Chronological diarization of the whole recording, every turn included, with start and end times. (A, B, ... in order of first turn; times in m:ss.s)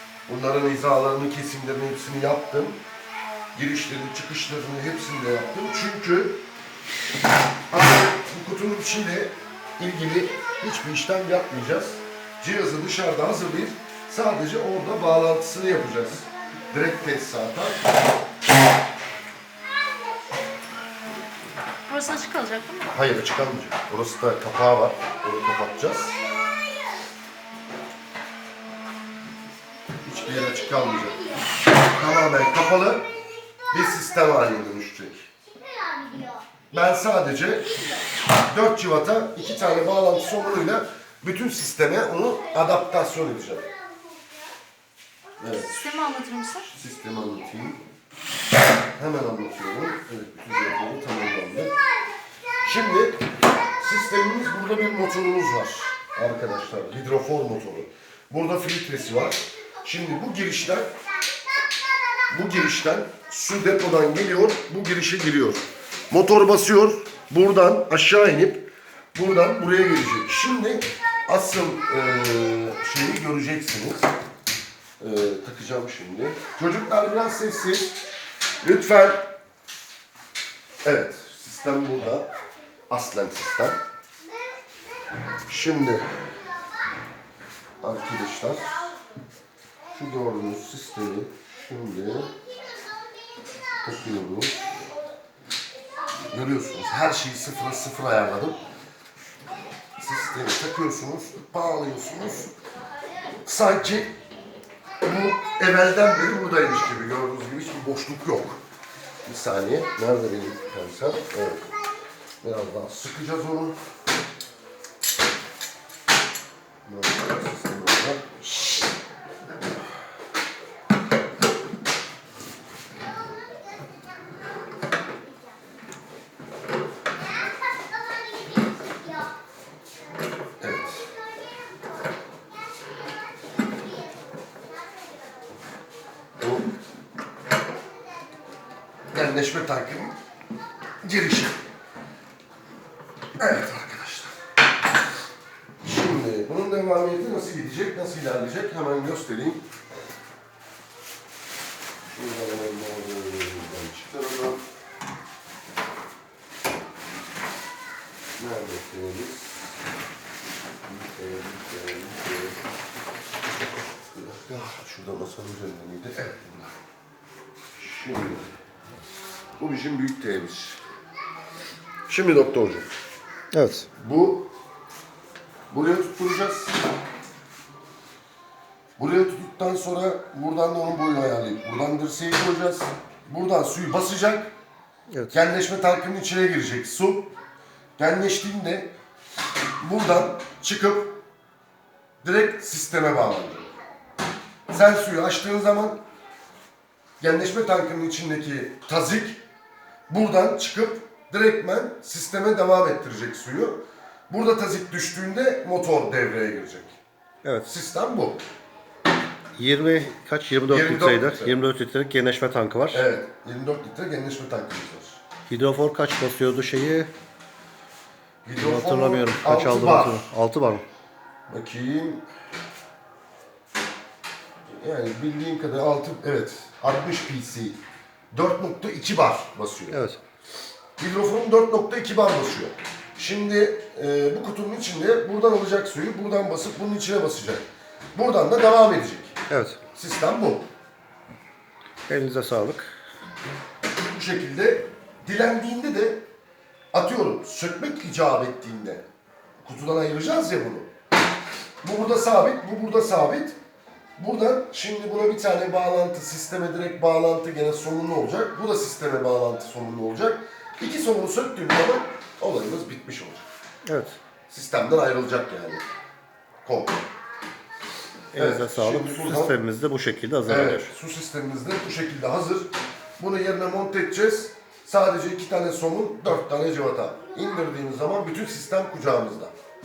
0:00.3-0:02.8 A
0:03.5-0:06.4 A
0:07.7-0:17.8 A
0:21.9-0:23.0 B
0:22.9-0:26.2 A
0:30.0-0:33.1 A
0:33.7-0:35.3 A
0:36.7-0:37.8 A
0:38.5-0:43.7 A
0:45.4-0:45.9 A
0:45.6-0:46.7 B
0:46.7-0:47.8 A
0:49.0-0:51.7 A
0:52.6-0:53.2 A
0:53.8-1:00.9 A
1:02.3-1:14.1 A
1:15.0-1:18.0 A
1:18.6-1:19.2 A
1:20.8-1:22.3 A
1:22.9-1:23.8 A
1:25.5-1:26.1 A
1:27.8-1:28.9 A
1:29.9-1:32.3 A
1:33.8-1:34.7 A
1:36.3-1:38.6 A
1:40.0-1:42.5 A
1:43.4-1:44.1 A
1:45.0-1:48.6 A
1:49.2-1:51.7 A
1:52.4-1:53.8 A
1:56.9-1:58.6 A
2:10.6-2:11.1 A
2:16.4-2:16.7 A
2:19.1-2:20.2 A
2:21.0-2:21.6 A
2:23.4-2:24.4 A
2:25.8-2:29.6 A
2:32.1-2:34.6 A
2:38.4-2:39.5 A
2:40.9-2:42.6 A
2:44.1-2:46.8 A
2:47.8-2:48.5 A
2:49.6-2:50.8 A
2:52.1-2:52.9 A
2:53.5-2:53.9 C
2:54.0-2:54.5 A
2:55.7-2:56.8 A
2:59.0-3:04.5 A
3:05.3-3:07.3 A
3:08.0-3:08.9 A
3:09.8-3:11.1 A
3:12.2-3:13.7 A
3:14.7-3:16.0 A
3:17.2-3:19.4 A
3:20.1-3:27.0 A
3:27.7-3:28.4 A
3:29.6-3:33.0 C
3:30.7-3:31.6 A
3:32.9-3:35.2 A
3:35.5-3:37.1 C
3:38.4-3:40.3 A
3:38.6-3:40.8 C
3:41.5-3:42.2 A
3:44.8-3:47.8 A
3:48.3-3:50.0 A
3:49.9-3:50.2 C
3:51.0-3:57.6 A
3:58.2-3:59.4 A
3:59.5-3:59.8 C
3:59.9-4:00.7 A
4:02.1-4:02.9 C
4:04.0-4:06.2 A
4:06.9-4:09.0 A
4:09.6-4:10.9 A
4:11.8-4:13.6 A
4:14.2-4:23.5 A
4:23.9-4:24.2 C
4:24.5-4:25.8 A
4:26.6-4:27.0 A
4:28.3-4:30.9 C
4:28.4-4:29.5 A
4:30.5-4:39.5 A